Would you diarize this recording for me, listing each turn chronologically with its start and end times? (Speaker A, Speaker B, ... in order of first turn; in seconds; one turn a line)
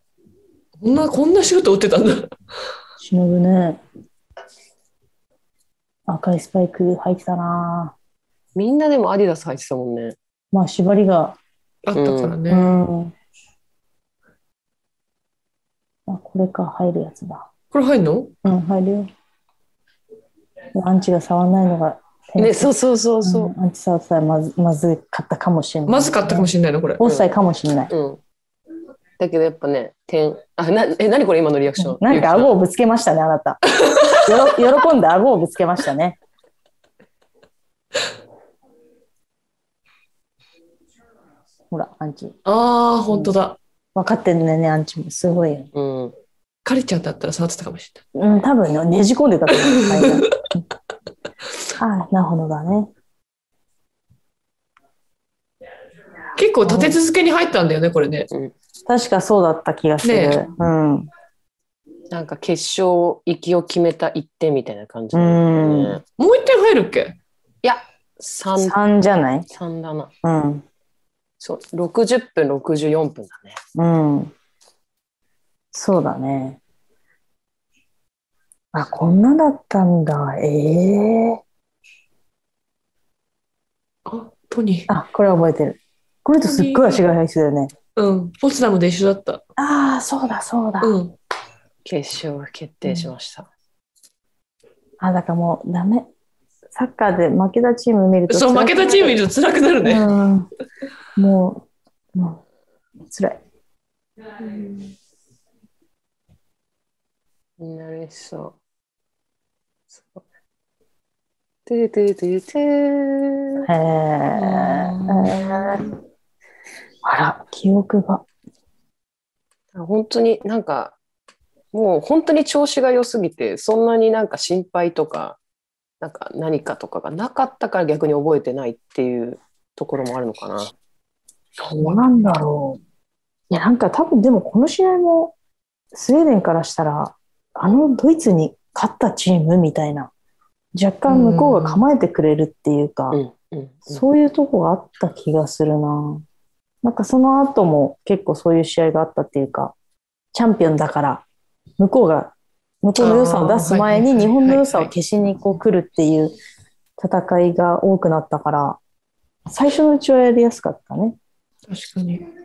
Speaker A: 0.8-2.3
Speaker B: 3.0-3.8
Speaker B: 6.1-8.0
Speaker C: 8.6-10.2
Speaker B: 10.5-11.4
Speaker A: 11.8-12.8
Speaker C: 11.9-12.4
Speaker B: 12.5-13.1
Speaker B: 16.1-17.5
Speaker A: 17.7-18.3
Speaker B: 18.4-19.1
Speaker B: 20.8-27.9
Speaker C: 22.4-23.5
Speaker A: 25.9-27.1
Speaker C: 27.9-28.2
Speaker C: 29.2-32.5
Speaker B: 31.8-33.6
Speaker A: 33.8-34.3
Speaker B: 34.1-36.2
Speaker B: 41.7-42.4
Speaker A: 42.5-43.6
Speaker B: 44.0-45.7
Speaker C: 45.8-46.1
Speaker A: 46.6-48.0
Speaker B: 48.1-50.4
Speaker A: 49.5-50.2
Speaker B: 51.8-52.9
Speaker A: 56.4-58.3
Speaker B: 56.6-57.0
Speaker B: 58.9-61.1
Speaker A: 60.0-60.4
Speaker C: 62.1-66.0
Speaker B: 65.1-66.0
Speaker A: 66.2-67.2
Speaker C: 67.6-68.8
Speaker B: 68.6-69.5
Speaker C: 69.5-70.1
Speaker B: 70.2-70.7
Speaker C: 71.4-73.6
Speaker B: 73.8-74.3
Speaker B: 75.7-76.6
Speaker B: 78.7-81.4
Speaker A: 84.1-84.9
Speaker B: 84.9-87.7
Speaker A: 86.4-87.1
Speaker A: 88.0-89.4
Speaker B: 89.6-91.0
Speaker A: 90.8-91.1
Speaker C: 91.8-93.5
Speaker B: 95.0-96.1
Speaker B: 96.7-99.1
Speaker A: 98.3-100.1
Speaker B: 99.8-100.5
Speaker B: 101.2-102.4
Speaker B: 103.1-103.4
Speaker A: 104.4-104.9
Speaker C: 107.6-108.6
Speaker C: 110.0-110.2
Speaker C: 111.7-113.7
Speaker B: 113.7-115.8
Speaker A: 114.3-115.9
Speaker B: 117.0-118.2
Speaker C: 119.7-121.0
Speaker C: 121.7-125.4
Speaker C: 126.0-130.7
Speaker A: 131.6-132.1
Speaker B: 131.6-132.8
Speaker B: 133.5-135.3
Speaker B: 135.9-140.1
Speaker B: 140.8-143.2
Speaker A: 141.1-141.8
Speaker C: 143.1-144.0
Speaker B: 143.9-146.2
Speaker B: 146.8-149.7
Speaker B: 150.3-151.2
Speaker B: 151.8-156.3
Speaker A: 152.9-154.9
Speaker B: 157.0-158.8
Speaker B: 159.5-161.2
Speaker A: 161.7-162.3